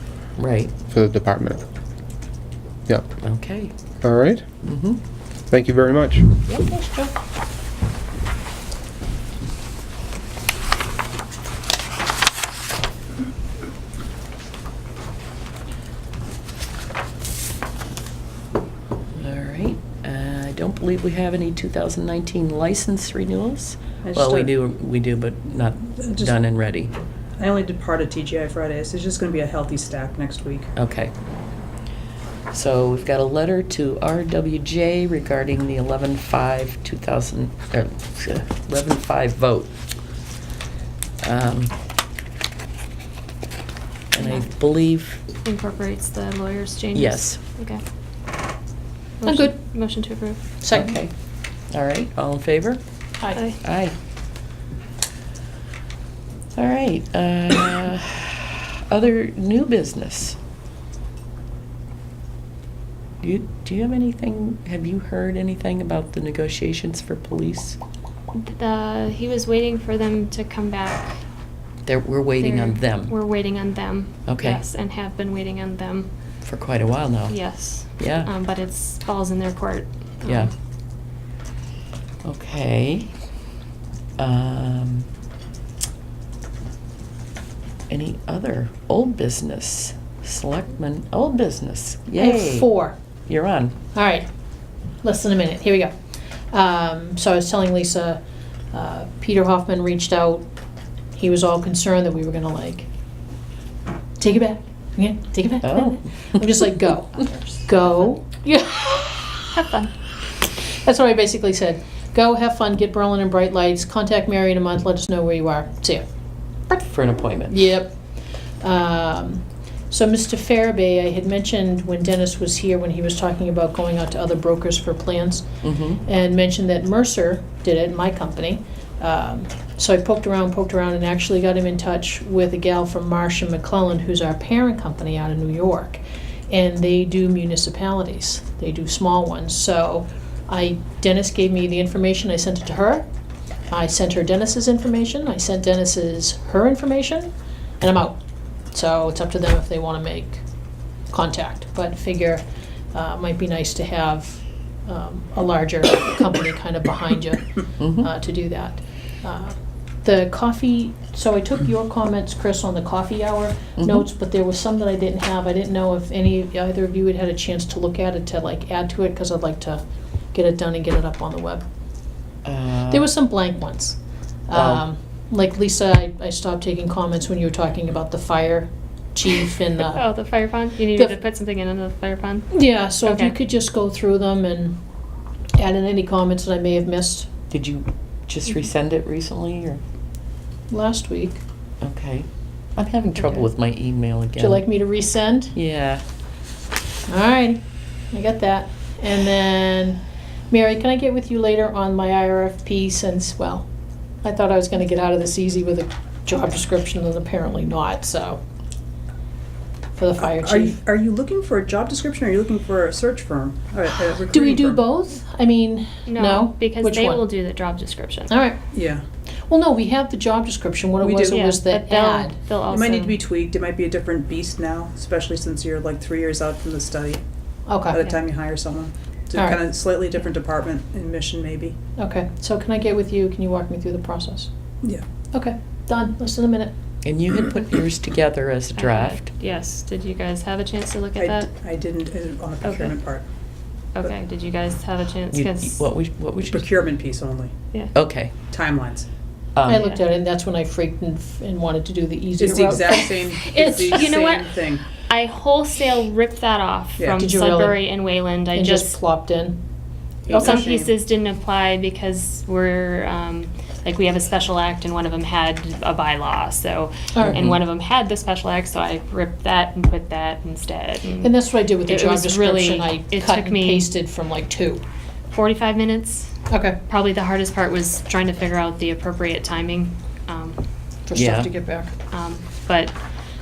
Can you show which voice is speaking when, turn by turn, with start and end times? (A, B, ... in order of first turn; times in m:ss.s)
0:00.4-0:00.7 A
0:00.9-0:01.6 B
0:03.2-0:03.7 A
0:04.0-0:04.4 B
0:04.6-0:05.0 A
0:05.5-0:06.3 B
0:06.5-0:07.2 C
0:19.2-0:26.9 A
0:24.0-0:24.6 D
0:26.0-0:26.3 D
0:27.4-0:30.7 D
0:30.8-0:31.1 A
0:32.5-0:39.8 A
0:41.2-0:41.7 A
0:44.1-0:45.2 A
0:44.2-0:44.4 E
0:45.4-0:47.8 E
0:46.9-0:47.4 A
0:49.2-0:50.4 E
0:49.2-0:49.6 C
0:50.6-0:51.0 C
0:50.7-0:51.1 A
0:51.7-0:52.8 A
0:53.3-0:53.6 E
0:53.6-0:54.0 A
0:56.5-1:00.4 A
1:03.2-1:07.8 A
1:08.3-1:11.2 E
1:11.8-1:13.2 A
1:12.4-1:16.1 E
1:14.2-1:14.6 A
1:16.4-1:18.3 A
1:17.3-1:20.5 E
1:20.2-1:20.5 A
1:22.2-1:23.1 A
1:24.2-1:25.1 A
1:27.9-1:32.7 A
1:32.1-1:33.0 C
1:33.3-1:33.8 A
1:33.9-1:34.3 C
1:35.0-1:35.9 C
1:36.5-1:38.2 C
1:38.7-1:40.4 C
1:41.2-1:42.9 C
1:44.2-1:49.5 C
1:45.6-1:46.4 A
1:49.5-1:49.9 E
1:50.6-1:56.0 C
1:56.7-1:57.6 A
1:57.5-1:58.0 C
1:58.6-2:05.5 C
2:05.6-2:06.0 A
2:06.0-2:23.0 C
2:23.7-2:27.3 C
2:27.8-2:28.2 C
2:28.7-2:30.4 C
2:31.1-2:49.8 C
2:37.8-2:38.1 A
2:43.8-2:44.0 A
2:50.3-2:51.6 C
2:52.4-2:53.1 A
2:52.9-2:54.0 C
2:54.5-3:00.1 C
2:54.5-2:54.8 A
2:59.8-3:03.4 E
3:02.5-3:04.8 C
3:05.6-3:07.3 C
3:07.5-3:09.8 A
3:10.7-3:11.4 C
3:11.8-3:14.6 A
3:14.4-3:15.5 C
3:15.5-3:16.0 A
3:17.1-3:17.6 C
3:18.1-3:23.7 C
3:24.2-3:28.4 C
3:29.9-3:30.8 C
3:30.2-3:34.9 D
3:34.3-3:37.2 C
3:36.0-3:38.3 E
3:38.3-3:38.6 C
3:38.7-3:39.0 D
3:39.5-3:42.4 C
3:41.0-3:41.4 D
3:41.3-3:43.2 E
3:42.7-3:47.2 D
3:47.7-3:48.0 C
3:47.9-3:51.8 D
3:49.3-3:49.6 C
3:52.0-3:54.5 C
3:55.3-3:56.7 C
3:57.0-3:59.3 A
3:58.8-4:01.5 E
4:01.2-4:03.2 D
4:02.6-4:02.9 E
4:03.9-4:05.8 E
4:05.3-4:06.7 A
4:06.5-4:07.5 D
4:07.9-4:08.5 A
4:08.5-4:09.1 D
4:09.6-4:09.8 A
4:09.7-4:14.2 C
4:09.7-4:10.0 E
4:12.4-4:14.8 D
4:13.9-4:19.0 E
4:17.0-4:17.2 D
4:17.2-4:19.6 C
4:20.3-4:20.9 D
4:20.3-4:33.9 E
4:27.2-4:27.5 C
4:31.2-4:34.8 C
4:35.3-4:36.3 E
4:36.5-4:36.8 C
4:36.9-4:40.6 E
4:41.1-4:41.9 C
4:41.1-4:41.5 A
4:42.1-4:43.0 E